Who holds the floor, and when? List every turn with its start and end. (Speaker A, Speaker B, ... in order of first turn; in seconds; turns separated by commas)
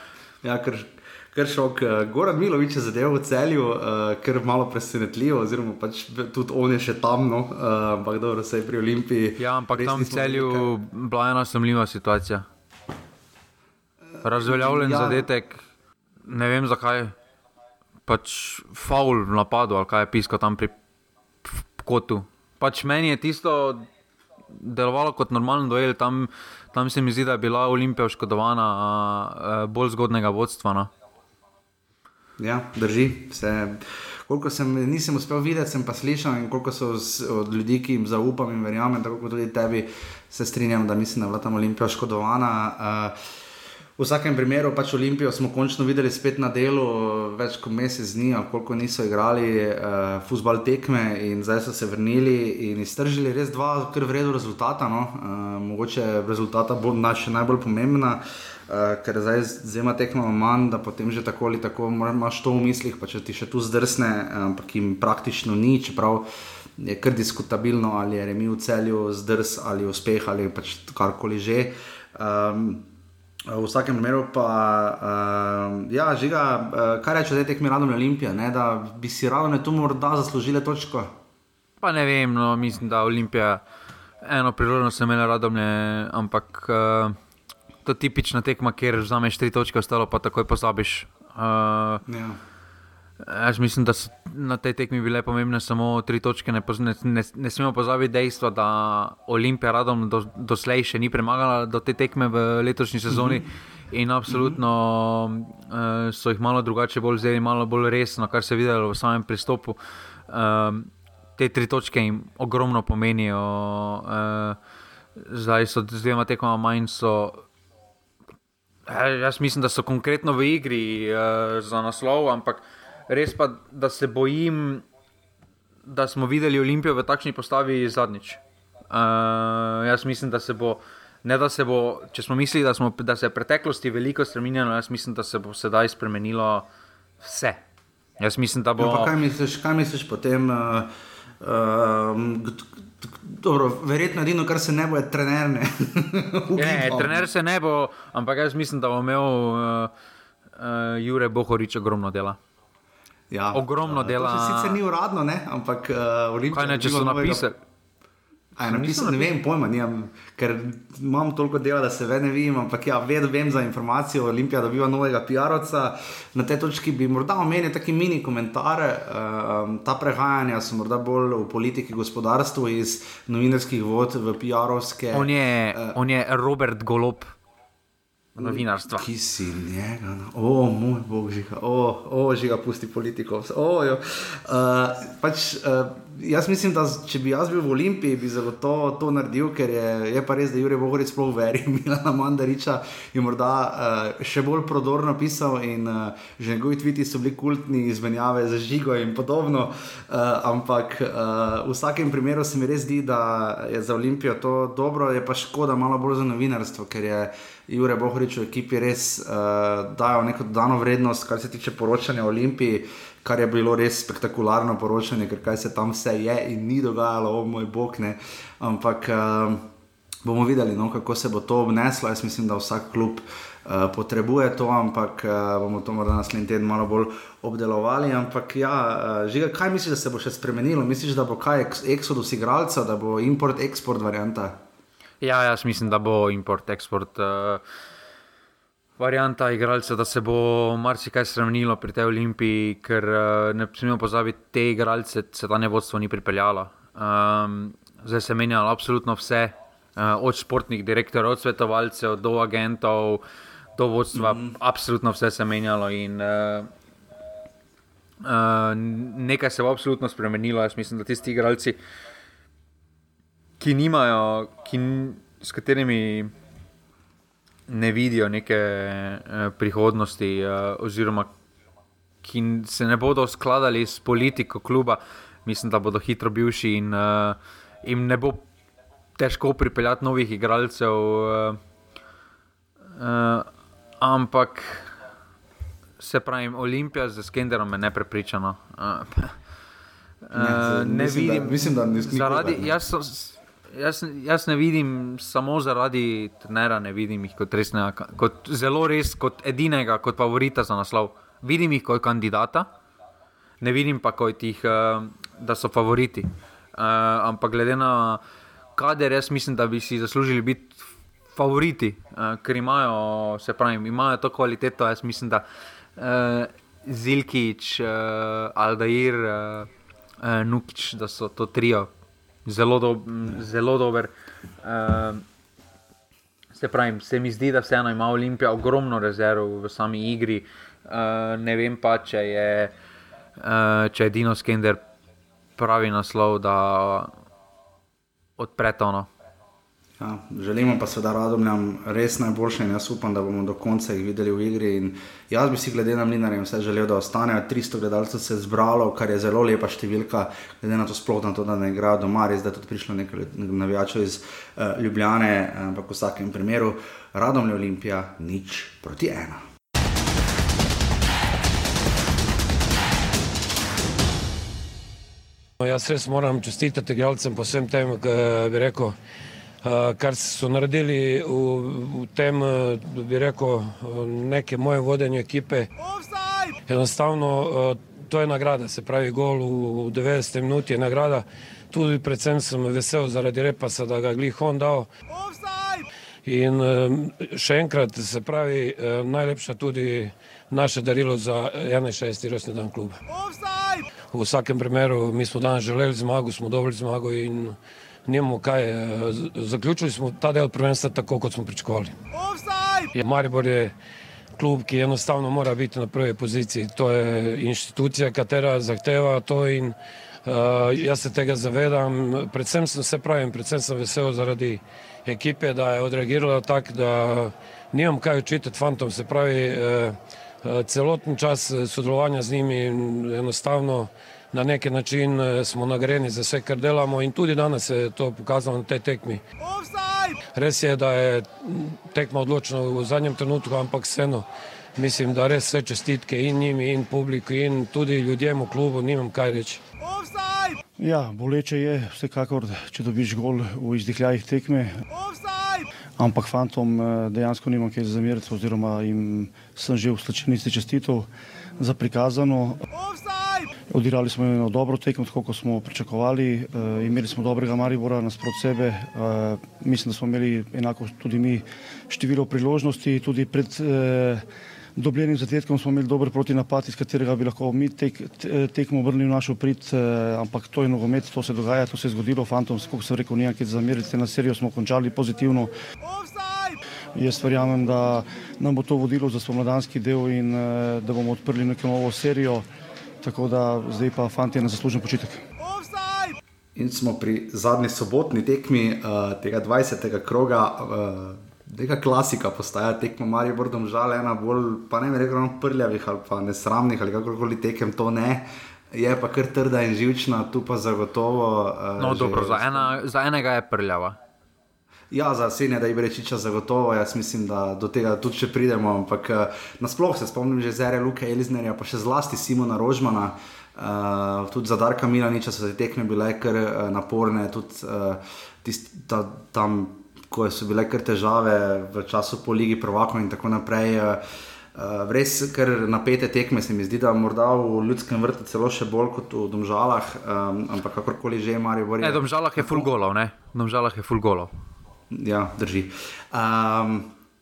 Speaker A: 0.4-10.7, Speaker B: 9.4-12.4, Speaker A: 14.2-15.3, Speaker B: 14.2-15.6, Speaker B: 16.2-17.1, Speaker B: 18.1-20.7, Speaker B: 21.4-23.9, Speaker B: 24.5-30.9, Speaker A: 32.4-43.1, Speaker A: 44.0-66.2, Speaker A: 66.8-72.8, Speaker A: 73.5-81.1, Speaker B: 81.8-83.6, Speaker B: 84.2-87.2, Speaker B: 87.8-92.0, Speaker A: 92.0-92.4, Speaker B: 93.2-109.8, Speaker A: 103.1-103.4, Speaker A: 104.3-104.6, Speaker B: 110.3-114.6, Speaker B: 115.2-117.4, Speaker B: 118.9-124.8, Speaker B: 125.8-128.4, Speaker B: 128.9-136.7, Speaker B: 137.2-137.6, Speaker B: 138.2-139.1, Speaker A: 138.8-140.9, Speaker A: 141.4-147.2, Speaker B: 146.5-149.9, Speaker B: 150.6-152.4, Speaker A: 153.3-157.5, Speaker B: 153.5-154.8, Speaker B: 156.5-157.6, Speaker A: 158.6-176.0, Speaker B: 158.6-159.3, Speaker B: 175.1-177.3, Speaker B: 178.3-179.1, Speaker A: 178.4-219.7, Speaker A: 220.2-234.6, Speaker B: 235.2-237.6, Speaker B: 239.0-253.2, Speaker B: 253.8-256.7, Speaker A: 254.1-254.6, Speaker B: 258.2-261.8, Speaker B: 263.6-266.3, Speaker B: 267.7-271.3, Speaker B: 272.2-278.4, Speaker B: 279.2-281.6, Speaker B: 282.9-283.5, Speaker B: 284.0-284.9, Speaker B: 286.0-289.4, Speaker B: 290.2-302.7, Speaker A: 290.3-292.8, Speaker B: 303.6-308.2, Speaker B: 308.8-310.8, Speaker B: 311.3-315.4, Speaker B: 316.0-319.7, Speaker B: 320.2-321.9, Speaker B: 322.4-324.1, Speaker B: 324.6-325.2, Speaker B: 326.5-332.7, Speaker B: 333.4-334.8, Speaker B: 335.6-337.1, Speaker B: 338.4-339.1, Speaker A: 340.0-359.4, Speaker C: 365.6-369.0, Speaker C: 369.6-375.7, Speaker C: 376.7-384.9, Speaker C: 386.2-393.0, Speaker C: 394.1-401.9, Speaker C: 402.9-403.7, Speaker C: 404.3-429.2, Speaker C: 430.3-439.6, Speaker D: 440.8-444.8, Speaker D: 446.0-452.6, Speaker D: 453.7-464.2, Speaker D: 464.8-475.5, Speaker D: 476.9-482.5, Speaker D: 483.0-485.2, Speaker A: 486.5-502.7, Speaker B: 501.8-504.0, Speaker A: 504.9-524.0, Speaker A: 524.5-532.7, Speaker B: 531.8-534.3, Speaker A: 534.9-536.9